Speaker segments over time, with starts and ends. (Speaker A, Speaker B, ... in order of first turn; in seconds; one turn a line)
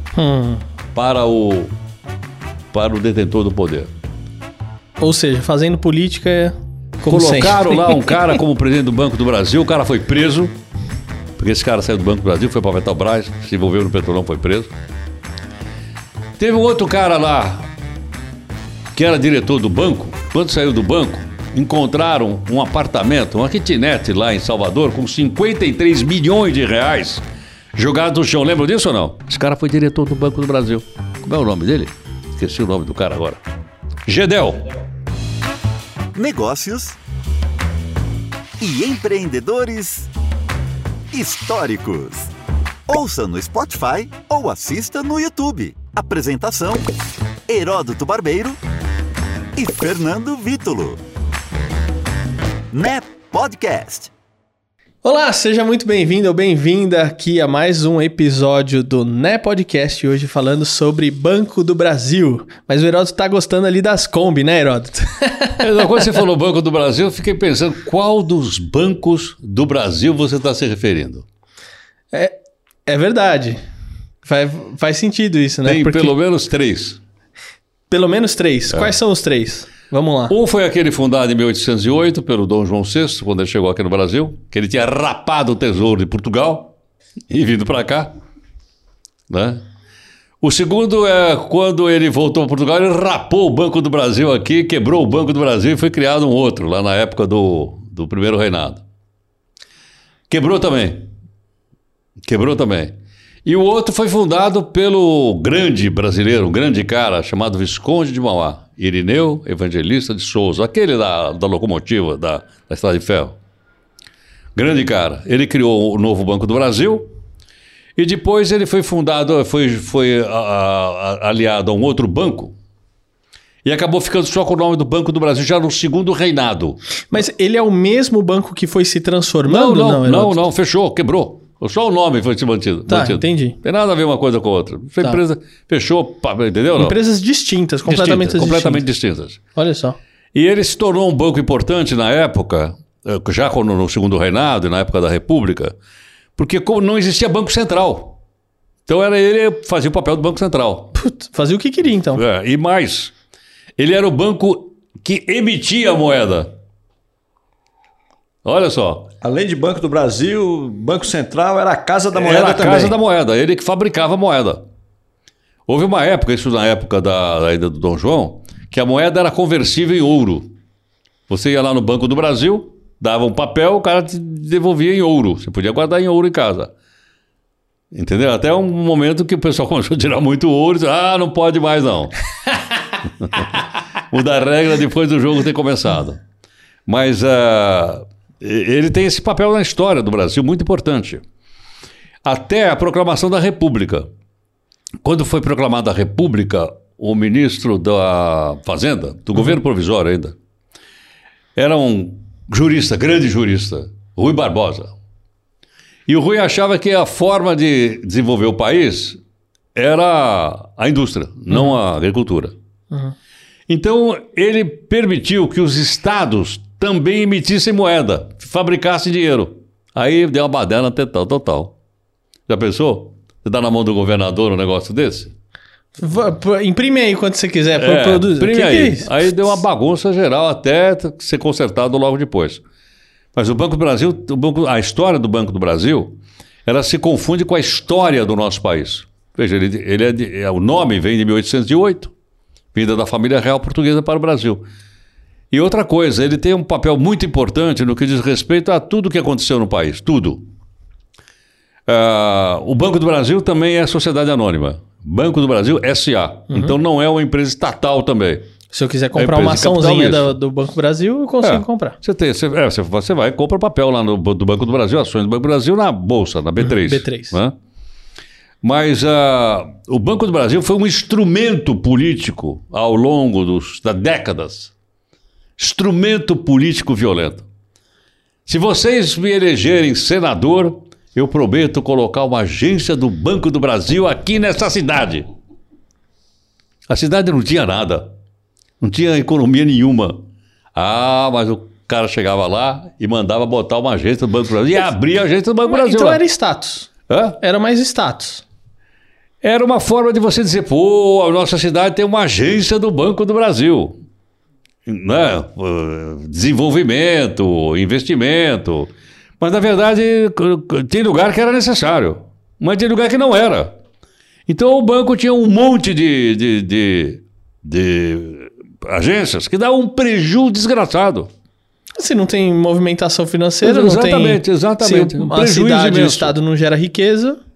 Speaker A: 0.1-0.6
Speaker B: 0.9-1.7
Speaker B: 2.7-3.9
Speaker A: 5.0-8.4
Speaker B: 7.1-10.6
Speaker B: 11.4-14.7
Speaker B: 16.4-17.7
Speaker B: 18.9-27.2
Speaker B: 27.8-33.4
Speaker B: 34.1-34.6
Speaker C: 36.1-37.0
Speaker C: 38.6-40.1
Speaker C: 41.1-42.3
Speaker C: 42.9-46.9
Speaker C: 47.5-48.6
Speaker C: 49.5-51.0
Speaker C: 52.7-54.1
Speaker A: 55.0-65.7
Speaker B: 65.6-71.3
Speaker A: 72.9-73.6
Speaker A: 74.2-76.2
Speaker B: 75.6-77.0
Speaker A: 77.9-80.3
Speaker B: 80.3-86.7
Speaker B: 87.3-88.1
Speaker B: 89.3-89.6
Speaker B: 90.4-98.8
Speaker B: 100.3-101.1
Speaker B: 102.2-113.4
Speaker B: 114.5-117.1
Speaker B: 118.0-122.5
Speaker B: 123.7-126.8
Speaker A: 127.1-130.4
Speaker B: 129.5-137.0
Speaker A: 132.9-133.6
Speaker A: 136.8-138.8
Speaker B: 137.8-139.4
Speaker A: 139.6-140.0
Speaker B: 140.3-145.8
Speaker B: 146.4-148.2
Speaker B: 148.9-150.9
Speaker A: 151.0-152.2
Speaker B: 152.1-153.1
Speaker B: 153.8-156.5
Speaker B: 158.4-159.1
Speaker D: 159.2-163.0
Speaker B: 162.2-164.6
Speaker B: 165.7-170.5
Speaker B: 171.3-176.7
Speaker B: 177.9-182.1
Speaker B: 183.2-186.2
Speaker B: 186.9-191.2
Speaker B: 192.2-194.1
Speaker B: 195.0-200.4
Speaker B: 201.6-204.9
Speaker B: 206.1-209.2
Speaker B: 209.8-212.5
Speaker B: 213.7-221.8
Speaker B: 222.5-225.3
Speaker A: 226.0-229.6
Speaker B: 227.8-232.6
Speaker B: 233.3-242.1
Speaker B: 242.7-244.6
Speaker B: 245.5-250.4
Speaker B: 251.9-258.5
Speaker A: 256.5-256.8
Speaker A: 258.7-262.0
Speaker B: 259.1-260.4
Speaker B: 261.4-267.6
Speaker A: 266.6-267.4
Speaker B: 268.6-274.7
Speaker B: 275.6-277.5
Speaker B: 278.5-285.2
Speaker B: 286.9-288.1
Speaker B: 288.8-290.2
Speaker B: 290.8-296.2
Speaker A: 295.7-296.9
Speaker B: 297.1-297.4
Speaker A: 297.4-298.4
Speaker B: 299.4-304.0
Speaker B: 304.9-313.7
Speaker B: 314.5-321.3
Speaker A: 322.0-327.4
Speaker B: 323.6-326.3